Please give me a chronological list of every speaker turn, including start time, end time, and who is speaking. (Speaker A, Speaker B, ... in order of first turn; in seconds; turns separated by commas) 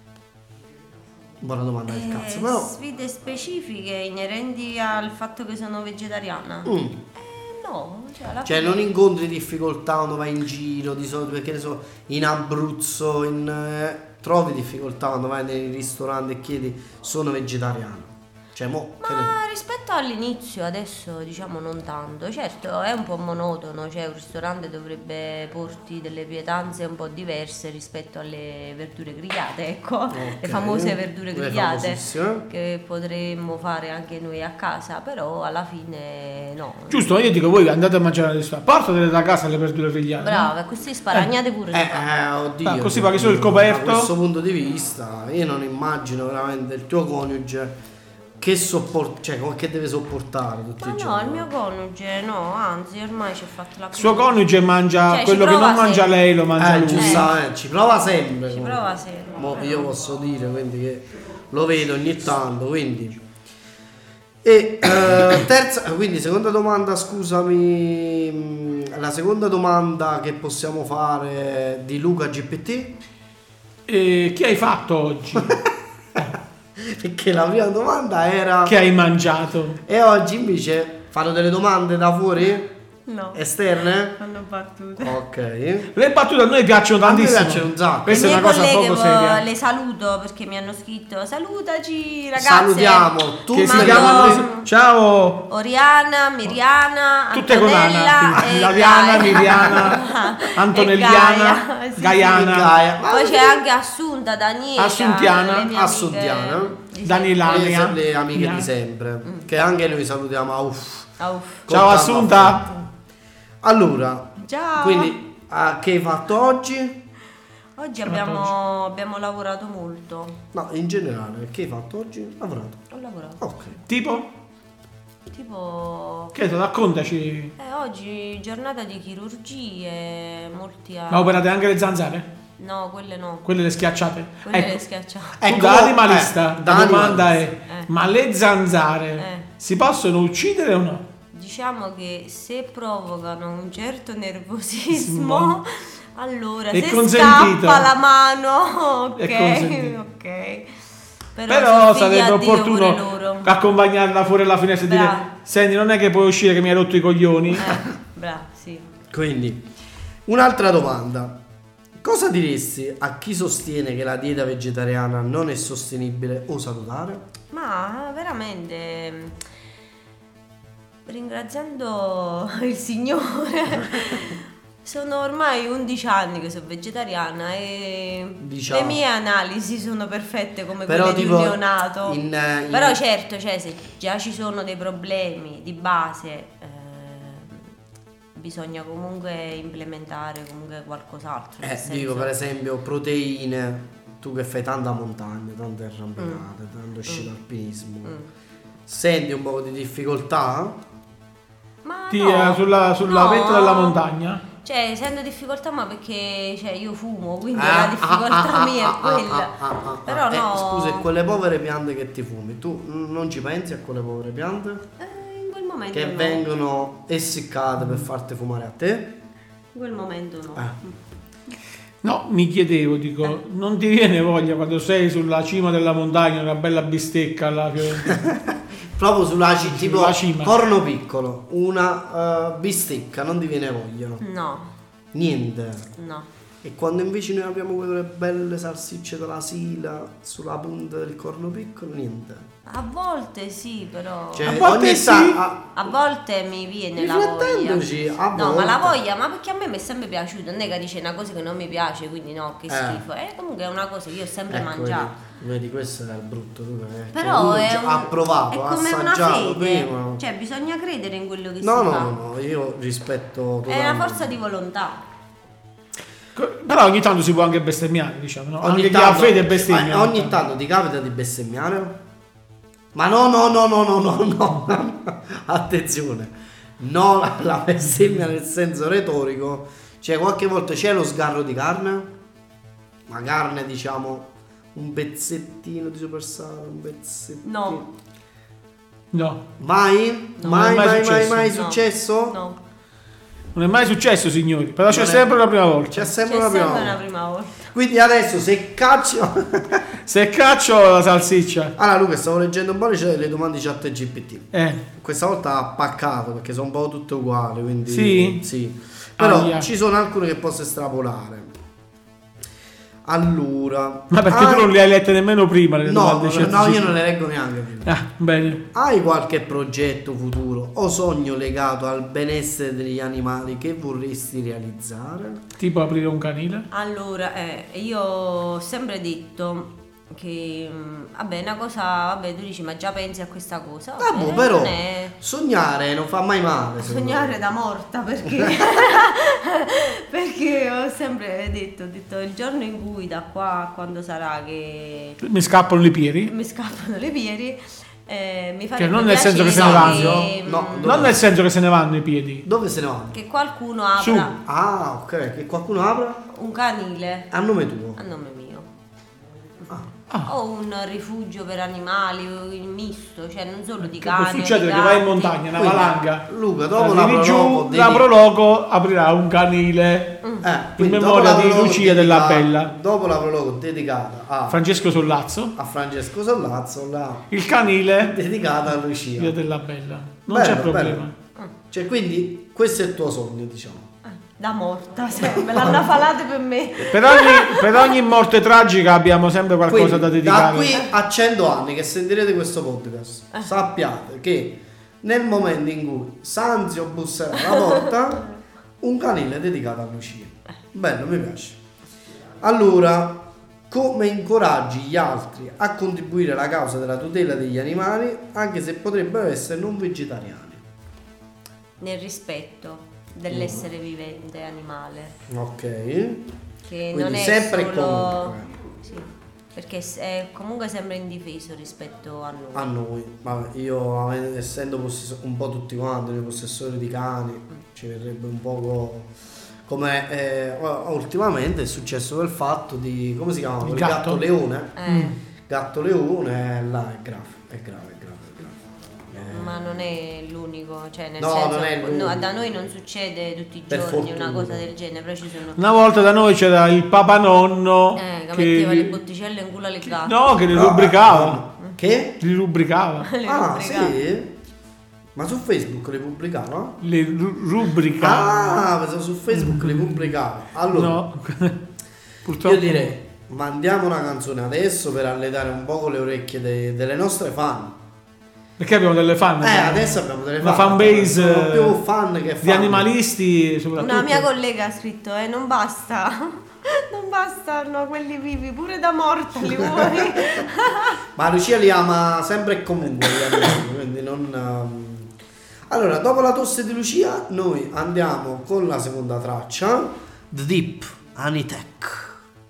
Speaker A: 1.4-2.8, Speaker B: 1.9-8.8, Speaker A: 6.6-7.0, Speaker A: 8.4-19.3, Speaker B: 19.0-37.0, Speaker A: 30.1-32.5, Speaker C: 36.9-40.5, Speaker B: 40.2-42.0, Speaker A: 41.7-47.8, Speaker C: 42.6-44.1, Speaker A: 48.4-51.5, Speaker B: 50.8-54.4, Speaker C: 53.9-57.3, Speaker B: 55.1-56.1, Speaker A: 56.5-63.2, Speaker B: 56.9-57.3, Speaker B: 58.5-59.9, Speaker A: 64.4-73.0, Speaker C: 73.9-75.6, Speaker A: 75.4-78.8, Speaker C: 78.6-79.8, Speaker A: 79.8-82.7, Speaker B: 83.0-83.4, Speaker A: 83.3-84.2, Speaker B: 84.1-85.2, Speaker A: 85.0-85.9, Speaker C: 85.9-89.4, Speaker A: 87.0-88.5, Speaker B: 88.1-94.7, Speaker A: 92.4-94.4, Speaker C: 93.5-95.4, Speaker B: 95.5-102.5, Speaker C: 97.3-102.7, Speaker A: 102.2-103.6, Speaker B: 103.1-107.7, Speaker C: 104.8-105.7, Speaker A: 105.6-106.8, Speaker C: 107.0-108.7, Speaker A: 107.4-111.1, Speaker B: 111.2-111.7, Speaker A: 111.7-112.9, Speaker C: 111.7-112.6, Speaker A: 113.6-117.0, Speaker B: 114.4-115.2, Speaker B: 117.8-120.3, Speaker C: 118.1-118.5, Speaker A: 120.5-122.8, Speaker B: 122.9-123.4, Speaker A: 123.4-123.8, Speaker C: 123.9-124.3, Speaker B: 125.3-126.3, Speaker C: 126.3-127.5, Speaker B: 127.6-131.4, Speaker C: 131.1-132.3, Speaker B: 132.6-133.5, Speaker C: 133.4-134.8, Speaker B: 134.4-135.4, Speaker A: 135.4-137.4, Speaker C: 135.4-141.0, Speaker B: 139.2-139.5, Speaker B: 141.3-150.7, Speaker C: 144.9-145.5, Speaker C: 146.7-147.9, Speaker C: 149.2-149.9, Speaker B: 151.3-153.5, Speaker C: 151.5-157.7, Speaker B: 154.8-155.3, Speaker B: 157.6-158.9, Speaker A: 159.1-159.7, Speaker A: 160.2-161.4, Speaker A: 162.0-167.2, Speaker B: 167.5-169.4, Speaker B: 171.1-182.2, Speaker A: 178.4-179.0, Speaker A: 180.9-183.0, Speaker B: 182.7-187.7, Speaker B: 188.3-192.3, Speaker A: 191.6-198.2, Speaker B: 196.2-196.4, Speaker B: 198.0-198.3, Speaker A: 198.9-200.8, Speaker B: 201.8-204.0, Speaker C: 202.1-204.4, Speaker B: 204.6-211.1, Speaker A: 207.5-214.8, Speaker B: 215.0-216.4, Speaker A: 215.9-219.2, Speaker B: 219.7-221.0, Speaker C: 222.0-228.2, Speaker A: 228.0-234.2, Speaker C: 229.7-230.5, Speaker B: 234.2-234.7, Speaker A: 235.1-235.9, Speaker B: 236.0-236.3, Speaker A: 236.6-242.4, Speaker B: 242.7-244.5, Speaker A: 244.3-245.8, Speaker C: 244.4-245.4, Speaker B: 245.7-255.1, Speaker A: 246.9-249.0, Speaker A: 252.7-253.0, Speaker A: 254.5-260.2, Speaker B: 257.1-262.2, Speaker A: 261.6-264.3, Speaker B: 263.7-265.0, Speaker C: 266.3-270.3, Speaker A: 268.6-272.0, Speaker A: 272.9-282.1, Speaker A: 283.1-287.9, Speaker B: 287.4-287.8, Speaker C: 289.1-289.4, Speaker A: 289.6-292.4, Speaker B: 290.4-290.7, Speaker C: 290.4-291.6, Speaker B: 291.5-292.6, Speaker C: 293.5-296.1, Speaker A: 294.9-295.3, Speaker A: 295.9-297.0, Speaker B: 296.2-297.7, Speaker A: 297.7-299.8, Speaker C: 300.1-301.7, Speaker A: 301.8-311.6, Speaker C: 304.5-304.8, Speaker C: 307.9-308.4, Speaker C: 309.2-309.7, Speaker A: 313.0-314.7, Speaker C: 314.1-316.9, Speaker A: 315.8-317.9, Speaker C: 317.9-318.6, Speaker A: 318.6-325.4, Speaker C: 325.6-326.7, Speaker B: 326.7-335.1, Speaker A: 334.0-337.4, Speaker B: 336.8-345.2, Speaker C: 345.2-346.3, Speaker B: 346.2-351.1, Speaker C: 348.8-350.3, Speaker A: 349.4-351.2, Speaker C: 350.8-352.4, Speaker A: 352.4-353.2, Speaker B: 353.1-354.3, Speaker C: 354.0-354.3, Speaker A: 354.4-356.2, Speaker B: 356.3-357.3, Speaker A: 357.3-358.0, Speaker B: 357.9-358.7, Speaker B: 360.2-365.4, Speaker C: 363.8-370.2, Speaker A: 365.5-368.1, Speaker A: 370.4-374.6, Speaker C: 370.8-372.7, Speaker C: 374.5-375.5, Speaker A: 375.6-377.3, Speaker C: 377.3-378.1, Speaker A: 378.0-379.3, Speaker C: 379.1-381.1, Speaker A: 380.3-381.0, Speaker A: 381.7-383.9, Speaker B: 384.3-387.9, Speaker A: 385.2-386.0, Speaker C: 386.9-390.8, Speaker A: 389.7-398.3, Speaker B: 397.5-397.8, Speaker A: 398.8-401.6, Speaker A: 402.4-410.6, Speaker B: 411.8-415.1, Speaker A: 413.3-413.6, Speaker A: 415.3-416.3, Speaker B: 416.6-422.7, Speaker A: 416.9-418.5, Speaker A: 422.5-429.1, Speaker A: 429.7-434.8, Speaker C: 433.6-434.2, Speaker B: 434.8-435.1, Speaker C: 434.9-435.1, Speaker A: 435.5-438.6, Speaker A: 439.1-439.6, Speaker B: 439.3-445.6, Speaker A: 441.2-442.5, Speaker A: 443.7-444.6, Speaker C: 445.6-448.9, Speaker B: 447.9-450.3, Speaker C: 449.9-451.4, Speaker A: 450.5-452.2, Speaker C: 452.2-453.1, Speaker B: 453.0-453.9, Speaker A: 453.2-454.3, Speaker A: 455.1-456.8, Speaker C: 456.8-458.7, Speaker A: 458.0-461.0, Speaker C: 459.3-460.1, Speaker C: 460.7-461.6, Speaker C: 462.2-462.9, Speaker A: 462.4-467.8, Speaker C: 468.6-471.8, Speaker A: 469.4-472.9, Speaker C: 472.4-474.2, Speaker B: 473.8-481.0, Speaker A: 479.5-480.4, Speaker A: 481.1-485.1, Speaker A: 485.7-492.2